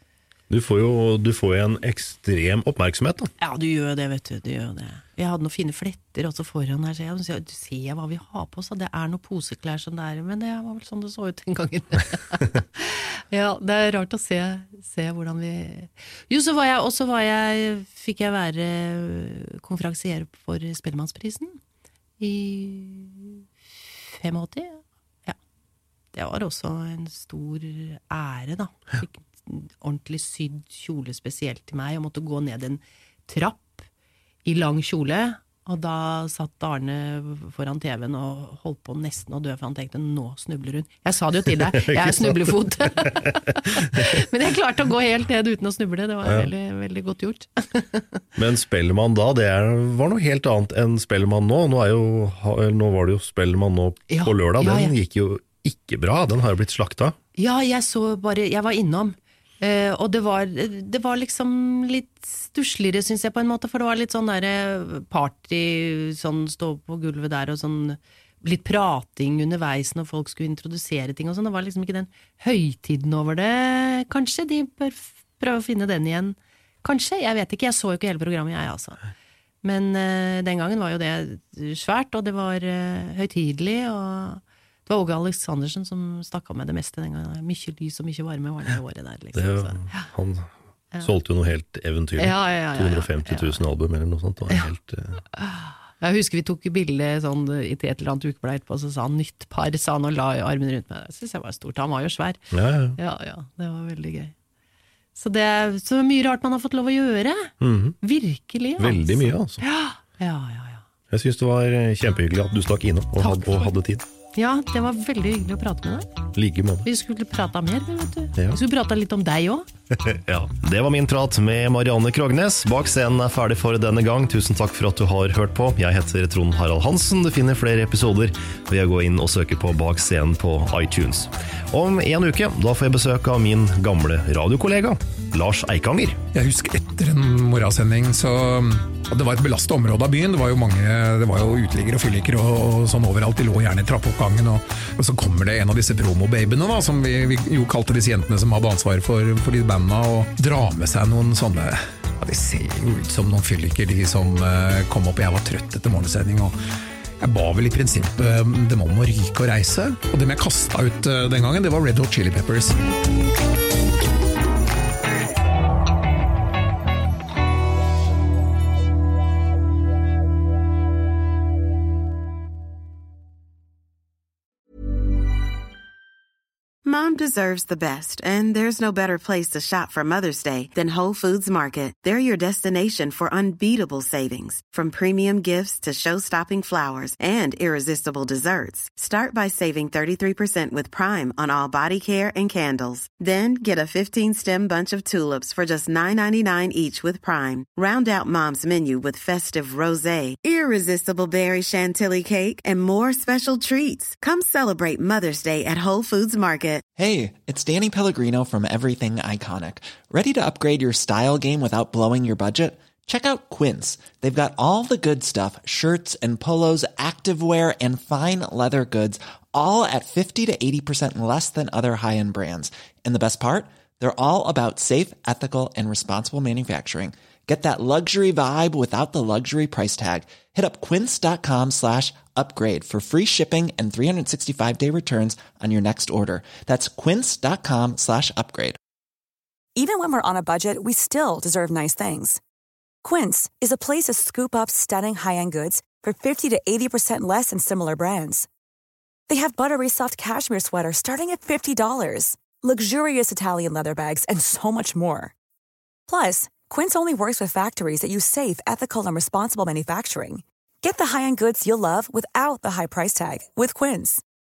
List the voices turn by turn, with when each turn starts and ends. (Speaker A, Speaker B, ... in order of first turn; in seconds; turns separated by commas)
Speaker A: 0.5-3.3, Speaker B: 3.4-21.6, Speaker B: 22.2-23.4, Speaker B: 24.1-25.4, Speaker B: 26.1-33.9, Speaker B: 34.4-48.0, Speaker A: 41.6-42.5, Speaker A: 46.2-46.5, Speaker A: 48.4-57.1, Speaker B: 54.1-54.9, Speaker B: 57.4-79.0, Speaker B: 79.6-90.1, Speaker A: 89.3-90.5, Speaker A: 91.0-95.2, Speaker B: 92.2-93.6, Speaker B: 95.3-102.4, Speaker A: 102.5-103.0, Speaker B: 103.0-104.3, Speaker B: 105.1-110.8, Speaker A: 107.6-108.0, Speaker A: 108.8-109.6, Speaker A: 111.1-114.0, Speaker B: 113.2-113.7, Speaker B: 114.3-116.1, Speaker A: 116.3-116.8, Speaker B: 116.8-119.7, Speaker A: 119.9-136.2, Speaker C: 136.3-156.5, Speaker C: 157.2-162.9, Speaker D: 176.8-206.8, Speaker E: 206.9-238.8, Speaker F: 239.8-242.4, Speaker F: 243.0-248.5, Speaker F: 249.3-255.3, Speaker F: 256.1-264.2